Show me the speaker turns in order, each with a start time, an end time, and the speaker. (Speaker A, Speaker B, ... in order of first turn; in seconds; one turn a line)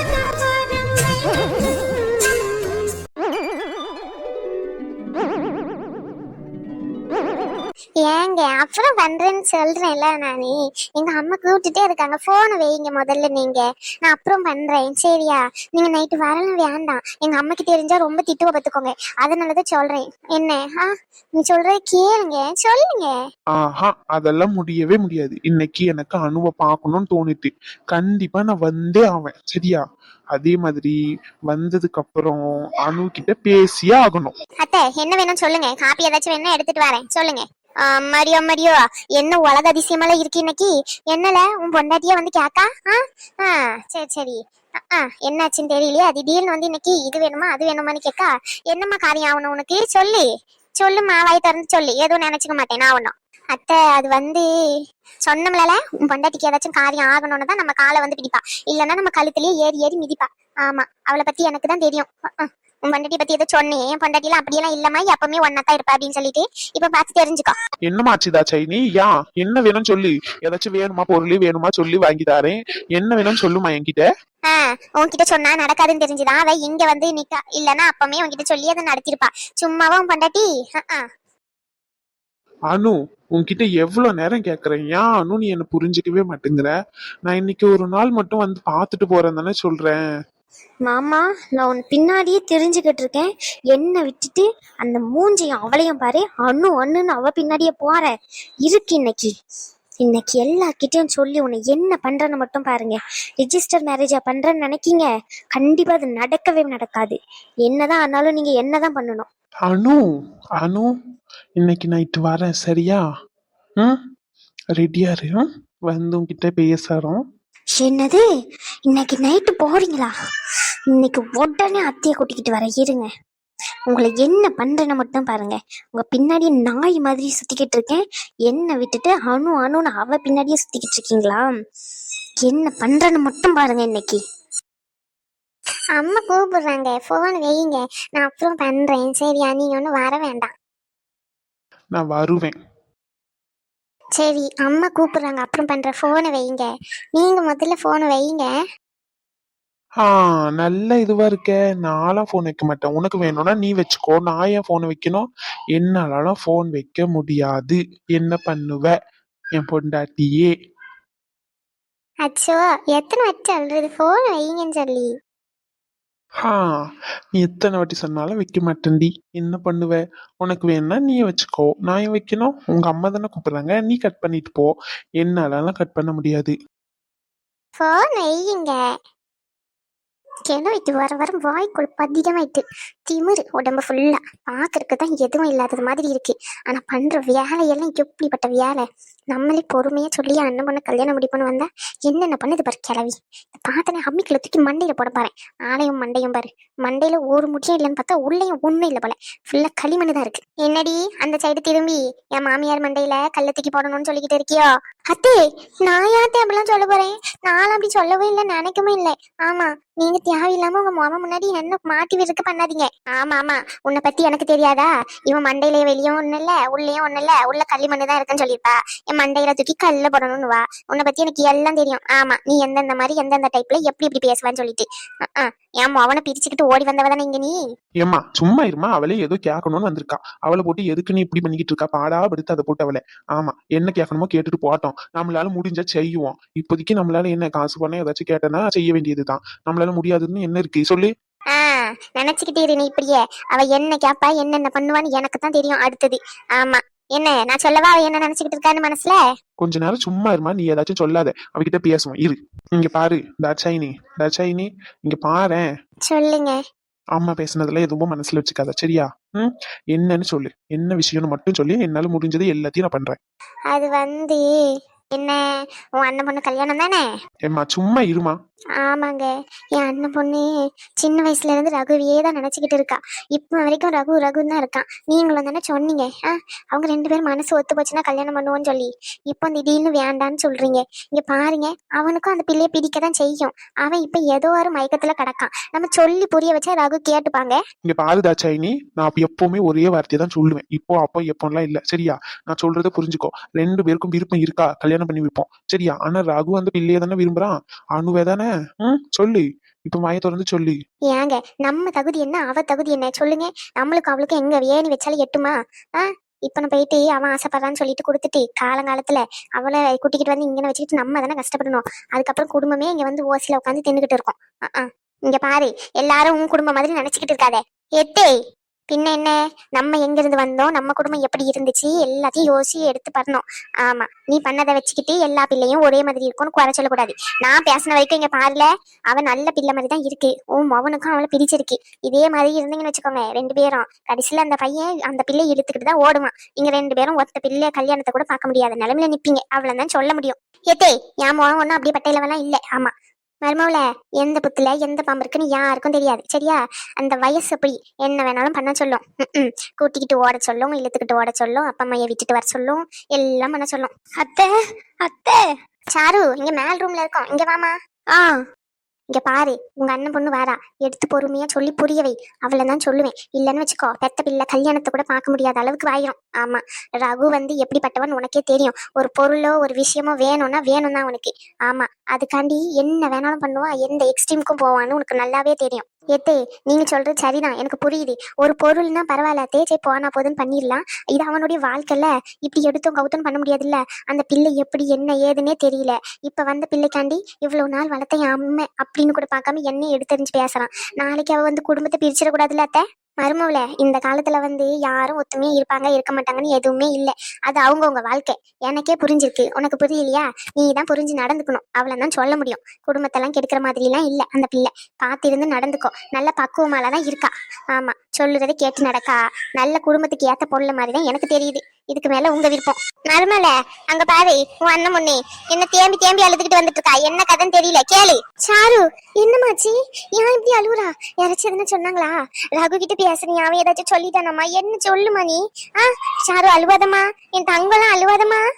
Speaker A: 8.0-23.1
Speaker B: 23.6-29.8
Speaker B: 30.3-31.0
Speaker B: 31.5-34.3
Speaker A: 34.6-44.4
Speaker A: 44.9-50.2
Speaker A: 50.8-54.5
Speaker A: 55.3-67.5
Speaker B: 67.9-74.1
Speaker A: 74.5-81.0
Speaker B: 82.7-86.7
Speaker B: 87.3-90.0
Speaker C: 90.9-98.1
Speaker C: 98.6-99.3
Speaker C: 100.0-109.3
Speaker B: 109.7-110.0
Speaker B: 110.6-110.9
Speaker B: 111.6-113.0
Speaker B: 114.8-117.2
Speaker C: 117.8-118.2
Speaker C: 118.9-120.1
Speaker C: 120.9-123.1
Speaker C: 123.9-131.5
Speaker C: 132.4-134.2
Speaker A: 136.0-140.5
Speaker B: 142.0-142.6
Speaker A: 144.2-148.5
Speaker B: 150.0-158.9
Speaker B: 159.6-160.5
Speaker A: 162.3-165.1
Speaker B: 167.3-176.5
Speaker A: 177.8-178.8
Speaker A: 180.5-227.6
Speaker B: 228.0-241.1
Speaker A: 241.5-249.2
Speaker B: 249.6-255.7
Speaker A: 256.1-256.6
Speaker B: 257.2-263.2
Speaker A: 263.7-264.4
Speaker A: 266.0-267.0
Speaker B: 267.5-268.4
Speaker A: 268.8-270.4
Speaker A: 271.0-287.6
Speaker B: 287.9-300.8
Speaker A: 301.1-318.4
Speaker A: 318.9-342.9
Speaker A: 343.4-353.9
Speaker C: 354.2-354.5
Speaker C: 355.0-355.4
Speaker A: 355.9-357.7
Speaker A: 359.1-428.4